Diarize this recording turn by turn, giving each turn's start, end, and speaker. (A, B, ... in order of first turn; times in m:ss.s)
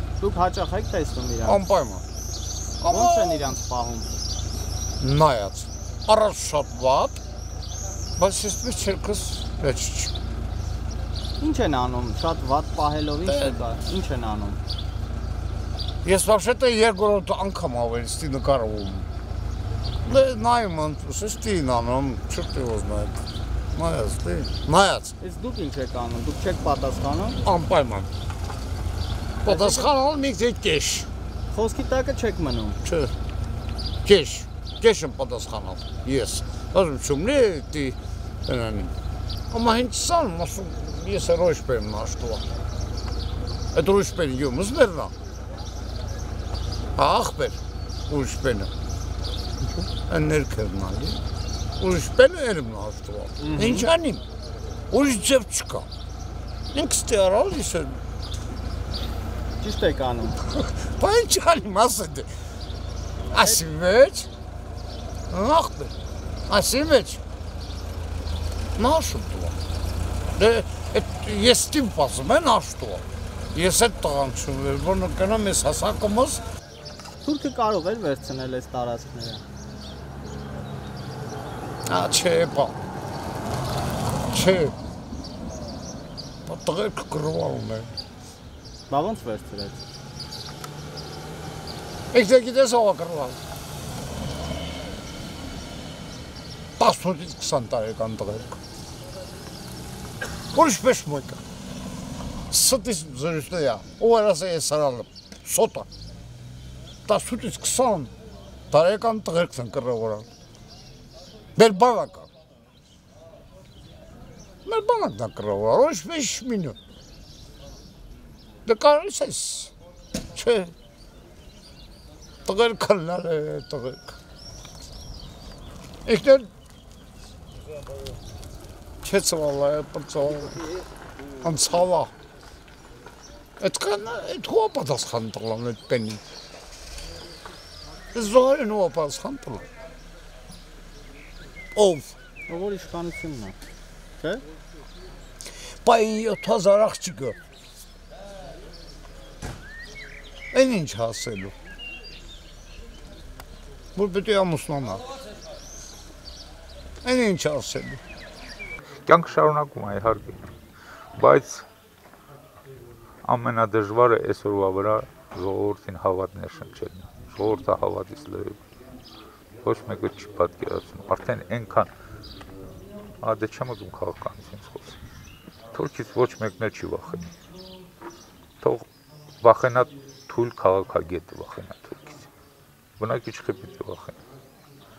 0:00.2-0:01.6 A
0:01.4-0:02.0 B
0:02.8-0:03.5 B
0:02.8-0:04.1 A
0:05.0-0:07.2 B
0:08.2-0:10.1 B
0:11.4-0:14.6 A
0:13.3-0:13.6 B
0:16.0-0:19.1 B
0:20.0-0:23.2 B
0:23.7-0:25.1 B
0:25.2-0:27.4 A
0:27.4-0:28.1 B
0:29.4-0:31.1 B
0:29.4-0:29.9 A
0:31.5-0:32.8 A
0:32.8-0:33.1 B
0:34.0-0:38.9 B
0:39.5-0:42.4 B
0:43.7-0:45.1 B
0:47.0-0:48.7 B
0:50.0-0:51.2 B
0:51.8-0:54.2 B
0:53.4-0:53.9 A
0:54.9-0:55.9 B
0:56.7-0:58.0 B
0:59.6-1:00.4 A
1:00.4-1:02.3 B
1:03.3-1:04.3 B
1:05.3-1:05.9 B
1:06.5-1:07.2 B
1:08.8-1:09.6 B
1:10.3-1:16.4 B
1:17.2-1:19.4 A
1:21.9-1:22.8 B
1:24.3-1:24.7 B
1:26.4-1:27.9 B
1:28.9-1:29.8 A
1:32.1-1:33.4 B
1:36.8-1:38.6 B
1:40.5-1:41.4 B
1:42.5-1:45.9 B
1:47.1-1:48.1 B
1:48.7-1:50.3 B
1:51.6-1:52.3 B
1:54.6-1:56.8 B
1:58.6-1:59.7 B
2:00.3-2:00.7 B
2:02.5-2:04.2 B
2:06.0-2:06.5 B
2:09.0-2:10.7 B
2:11.4-2:12.1 B
2:13.6-2:16.2 B
2:18.1-2:19.7 B
2:21.7-2:22.1 B
2:22.5-2:23.6 A
2:24.2-2:24.4 A
2:25.8-2:27.4 B
2:30.5-2:31.5 B
2:33.9-2:35.0 B
2:37.0-2:38.0 B
2:39.0-2:40.4 C
2:41.1-2:41.6 C
2:43.2-2:48.6 C
2:49.6-2:51.9 C
2:53.2-2:55.0 C
2:55.7-2:57.3 C
2:58.6-2:58.8 C
2:59.4-3:02.3 C
3:03.0-3:04.2 C